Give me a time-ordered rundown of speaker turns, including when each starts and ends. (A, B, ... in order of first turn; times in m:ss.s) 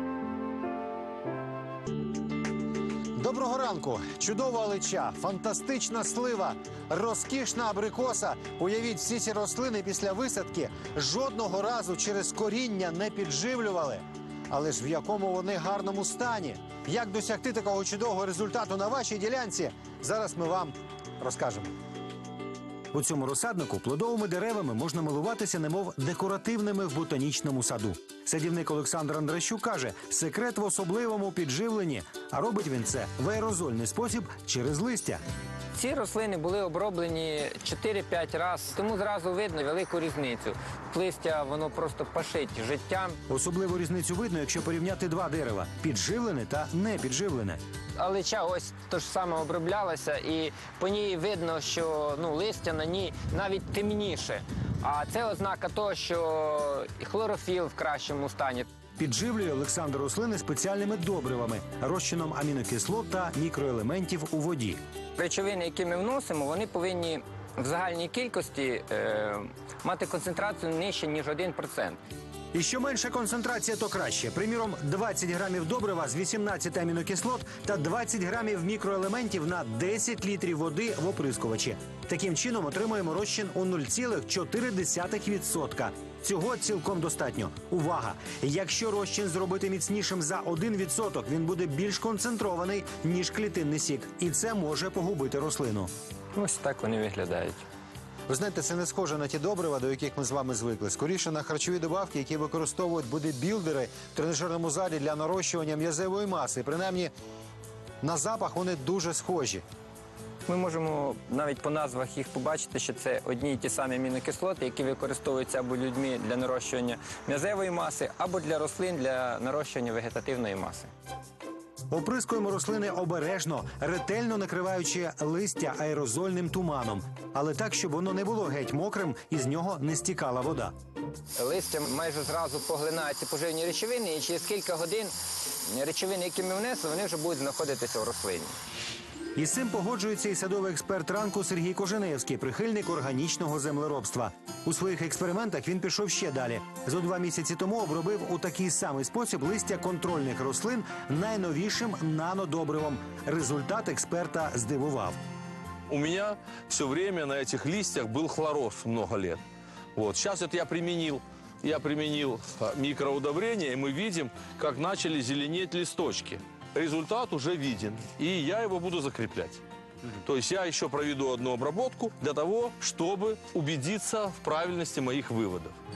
0:03.2-0:21.7 A
0:22.9-0:35.2 A
0:35.7-0:43.2 B
0:43.3-0:47.6 A
0:48.0-0:58.7 B
0:59.0-1:04.8 A
1:05.2-1:12.0 B
1:12.5-1:35.9 A
1:36.4-1:37.6 B
1:38.3-1:47.1 A
1:48.0-1:49.6 A
1:50.5-2:00.9 B
2:01.9-2:10.7 A
2:11.4-2:15.1 B
2:15.7-2:18.6 B
2:19.4-2:35.2 A
2:35.9-2:39.4 C
2:40.0-2:49.6 C
2:50.2-2:55.8 C